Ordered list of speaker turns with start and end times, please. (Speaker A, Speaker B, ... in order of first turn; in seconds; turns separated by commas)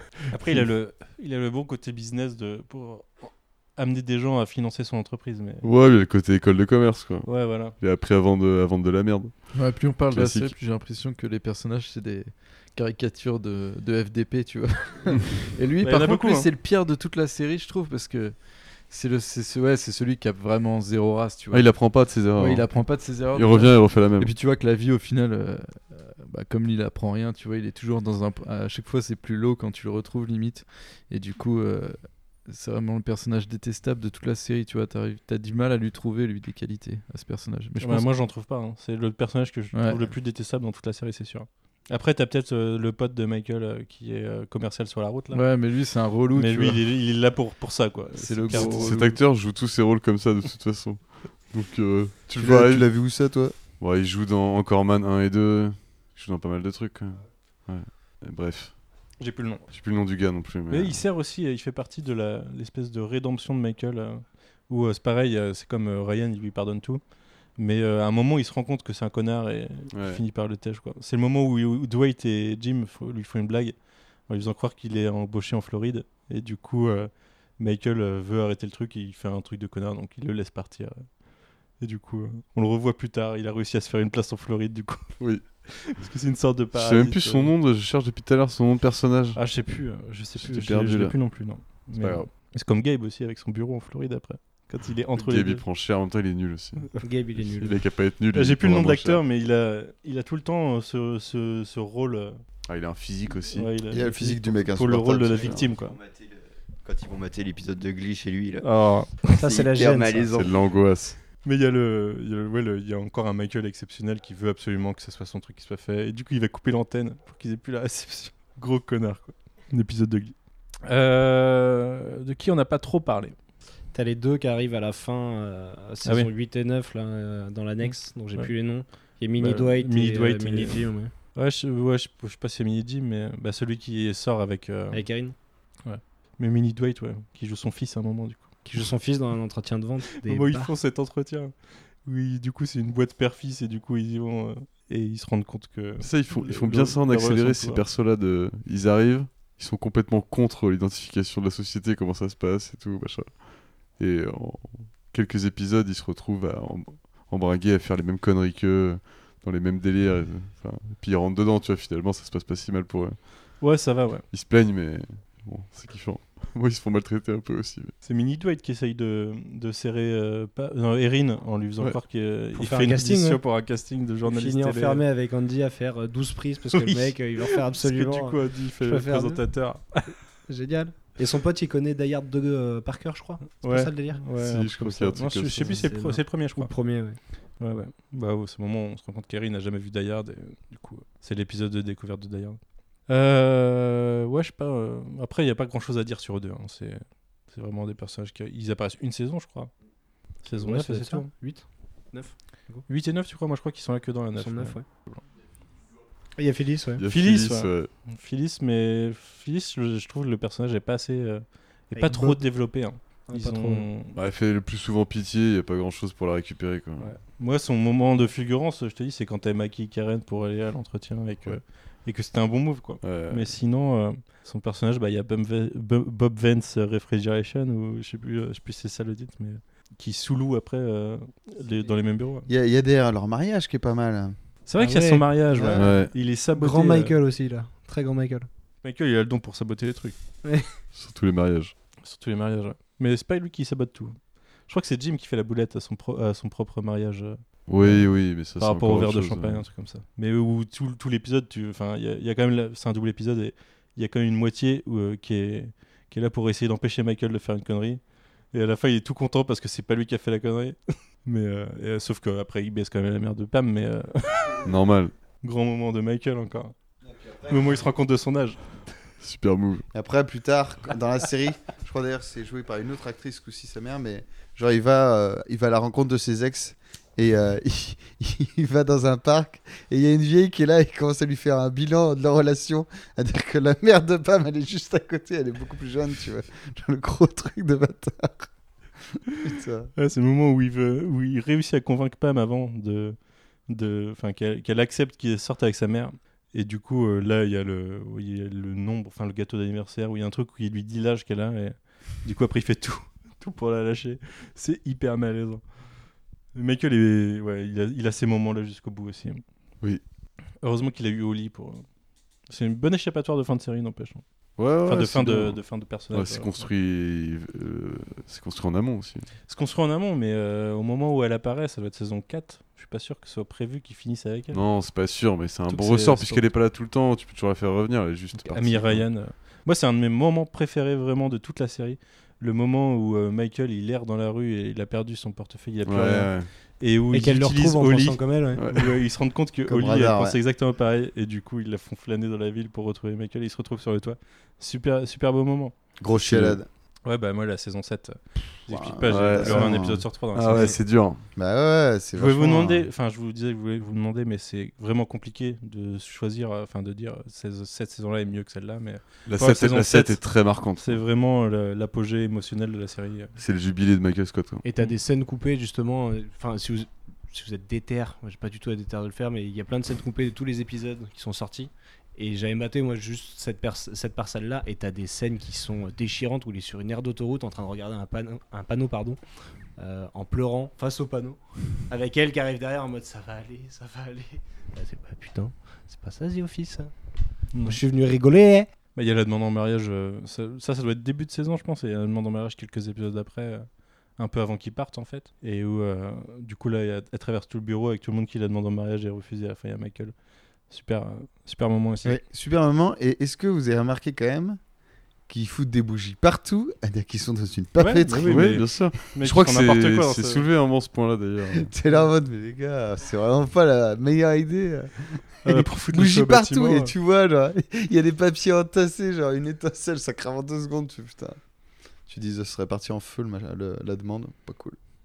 Speaker A: 0.3-5.7, Speaker B: 5.6-10.5, Speaker A: 7.2-7.8, Speaker C: 9.5-38.1, Speaker A: 15.8-16.5, Speaker B: 21.5-24.3, Speaker A: 37.8-49.0, Speaker C: 39.7-40.1, Speaker C: 45.3-46.9, Speaker C: 48.1-49.2, Speaker B: 48.5-53.2, Speaker D: 52.4-53.5, Speaker B: 53.8-59.0, Speaker A: 59.2-59.7, Speaker B: 59.7-61.0, Speaker A: 60.7-81.2, Speaker B: 69.9-70.2, Speaker A: 81.7-87.5, Speaker B: 86.7-89.5, Speaker A: 89.3-95.6, Speaker B: 90.4-91.3, Speaker B: 92.0-92.3, Speaker B: 95.2-99.2, Speaker E: 97.0-97.8, Speaker A: 98.3-102.4, Speaker B: 102.7-103.7, Speaker A: 103.5-106.0, Speaker D: 103.9-105.7, Speaker F: 105.3-110.7, Speaker A: 108.6-109.2, Speaker E: 109.3-110.3, Speaker B: 110.3-111.2, Speaker A: 111.4-123.4, Speaker E: 123.9-131.1, Speaker A: 126.0-126.3, Speaker A: 127.8-138.5, Speaker E: 134.9-135.3, Speaker E: 138.6-140.7, Speaker A: 140.2-141.5, Speaker A: 142.0-147.8, Speaker B: 146.0-163.6, Speaker A: 163.6-164.3, Speaker B: 164.3-167.9, Speaker A: 168.0-175.0, Speaker E: 172.6-173.4, Speaker E: 174.2-179.7, Speaker A: 176.7-180.2, Speaker E: 180.5-184.2, Speaker A: 183.6-186.8, Speaker B: 184.4-185.9, Speaker E: 185.6-187.2, Speaker A: 187.6-199.7, Speaker A: 200.4-201.3, Speaker E: 200.5-202.8, Speaker A: 202.9-205.2, Speaker E: 204.4-204.8, Speaker E: 206.4-207.0, Speaker B: 207.0-207.9, Speaker A: 207.1-214.2, Speaker E: 211.9-213.9, Speaker B: 214.2-217.1, Speaker A: 217.0-232.5, Speaker B: 223.0-223.6, Speaker D: 232.5-234.3, Speaker A: 234.7-237.2, Speaker E: 234.8-235.9, Speaker D: 235.5-235.9, Speaker B: 235.8-236.1, Speaker E: 236.5-238.5, Speaker A: 238.8-240.2, Speaker B: 240.9-241.7, Speaker A: 242.0-264.7, Speaker B: 247.7-249.7, Speaker B: 264.6-265.1, Speaker A: 265.4-266.8, Speaker A: 267.3-268.8, Speaker B: 269.2-269.9, Speaker D: 269.9-288.5, Speaker D: 289.4-289.9, Speaker A: 290.0-305.6, Speaker A: 306.5-309.4, Speaker A: 310.6-311.9, Speaker A: 312.5-314.2, Speaker B: 314.6-319.3, Speaker A: 314.8-316.7, Speaker A: 319.5-324.6, Speaker B: 324.5-329.1, Speaker A: 325.7-326.5, Speaker A: 328.5-345.7, Speaker B: 335.9-336.5, Speaker E: 337.1-338.6, Speaker B: 338.6-338.9, Speaker D: 339.7-340.4, Speaker D: 346.0-346.7, Speaker B: 346.1-346.6, Speaker A: 347.1-350.8, Speaker D: 348.7-350.1, Speaker B: 349.1-351.2, Speaker D: 351.4-352.9, Speaker A: 352.1-360.2, Speaker B: 359.3-361.0, Speaker A: 360.7-363.3, Speaker B: 363.4-364.6, Speaker E: 364.6-379.2, Speaker E: 379.8-386.9, Speaker A: 387.5-387.8, Speaker E: 387.6-388.7, Speaker A: 388.9-400.1, Speaker A: 400.7-402.1, Speaker D: 402.0-404.6, Speaker D: 405.3-408.8, Speaker A: 407.8-410.5, Speaker B: 408.2-411.7, Speaker D: 411.6-421.4, Speaker A: 415.4-416.9, Speaker D: 422.1-424.8